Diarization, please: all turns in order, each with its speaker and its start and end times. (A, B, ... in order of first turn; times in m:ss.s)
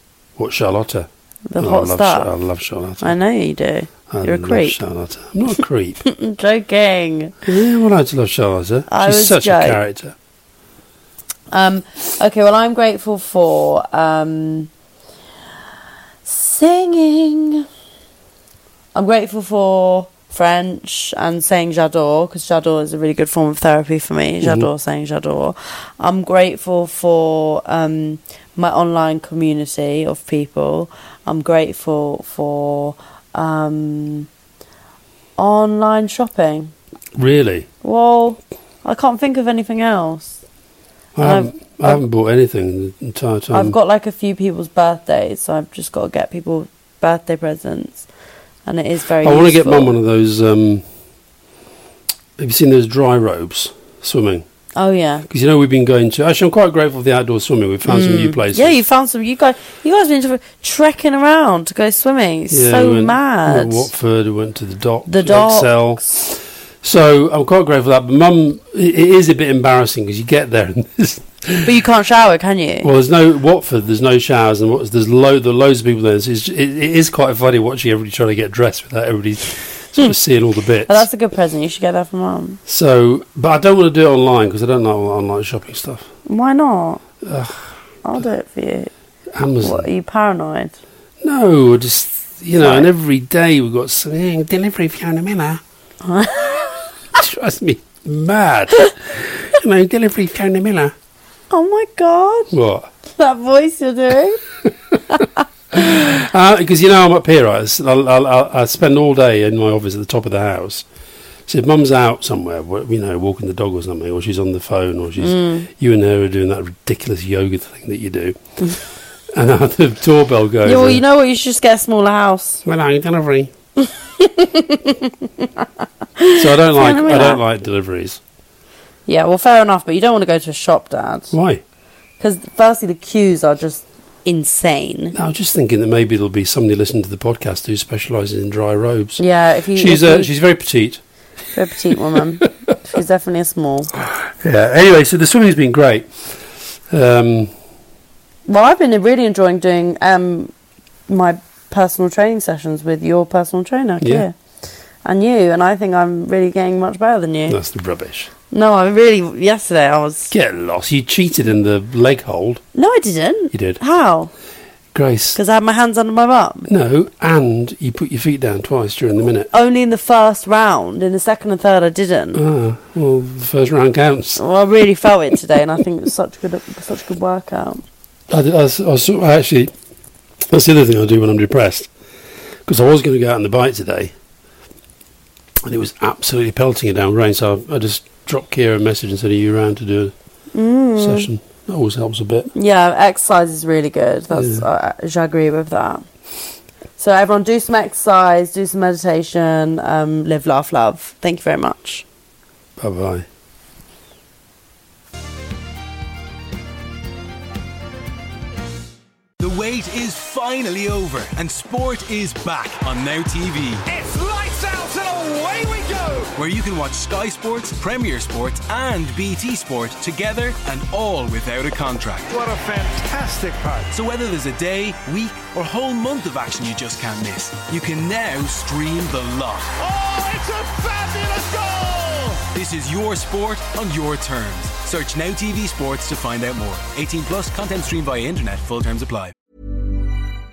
0:00.4-0:03.1 A
0:01.5-0:02.3 B
0:03.0-0:04.8 B
0:04.1-0:06.0 A
0:06.0-0:07.4 B
0:07.4-0:10.1 A
0:08.9-0:09.8 B
0:11.5-0:14.7 B
0:16.2-0:17.6 B
0:18.9-0:34.3 B
0:24.4-0:24.7 A
0:35.4-0:36.7 B
0:37.1-0:37.7 A
0:37.8-0:40.4 B
0:41.1-0:43.8 A
0:41.2-0:42.0 B
0:43.5-0:48.0 B
0:48.6-0:49.9 B
0:49.2-0:50.8 A
0:52.4-0:54.4 A
0:54.8-0:55.3 B
0:55.3-0:58.8 A
0:57.9-1:03.9 B
1:02.5-1:11.7 A
1:05.1-1:05.7 B
1:11.6-1:12.9 B
1:12.8-1:21.1 A
1:20.8-1:22.6 B
1:22.7-1:26.1 A
1:26.2-1:27.0 B
1:27.2-1:27.7 A
1:28.0-1:28.9 B
1:29.3-1:29.8 A
1:29.6-1:30.8 B
1:31.2-1:35.6 A
1:32.6-1:32.9 B
1:36.0-1:36.9 B
1:37.1-1:40.9 A
1:41.5-1:42.5 B
1:42.5-1:42.9 A
1:43.1-1:44.4 B
1:45.7-1:50.8 A
1:51.5-1:58.4 A
1:55.2-1:55.7 B
1:59.3-2:01.0 A
2:00.6-2:02.6 B
2:02.6-2:03.5 A
2:03.8-2:05.6 B
2:06.2-2:07.4 B
2:06.4-2:08.2 A
2:09.1-2:11.3 B
2:11.3-2:11.6 A
2:12.2-2:15.1 B
2:15.1-2:19.2 A
2:19.2-2:20.3 B
2:19.7-2:21.0 A
2:21.5-2:23.9 B
2:22.1-2:22.5 A
2:24.0-2:26.4 A
2:26.9-2:27.5 A
2:28.5-2:30.5 B
2:31.1-2:34.3 B
2:34.0-2:34.3 A
2:35.0-2:37.6 B
2:37.5-2:38.3 A
2:38.5-2:40.3 B
2:40.3-2:42.6 A
2:42.7-2:44.3 B
2:43.5-2:43.8 A
2:44.9-2:45.4 A
2:45.3-2:46.7 B
2:46.7-2:49.5 A
2:49.5-2:52.4 B
2:52.3-2:54.4 A
2:54.4-2:57.8 B
2:58.3-2:59.7 A
3:00.5-3:01.9 A
3:02.6-3:04.1 A
3:05.6-3:10.1 A
3:10.5-3:11.3 B
3:11.0-3:12.5 A
3:12.5-3:16.1 B
3:14.3-3:14.6 A
3:17.0-3:22.0 B
3:22.8-3:23.2 A
3:29.4-3:33.8 C
3:33.8-3:36.3 D
3:36.4-3:42.3 C
3:42.3-3:43.9 D
3:43.9-3:49.7 C
3:49.8-3:52.5 D
3:52.5-3:59.3 C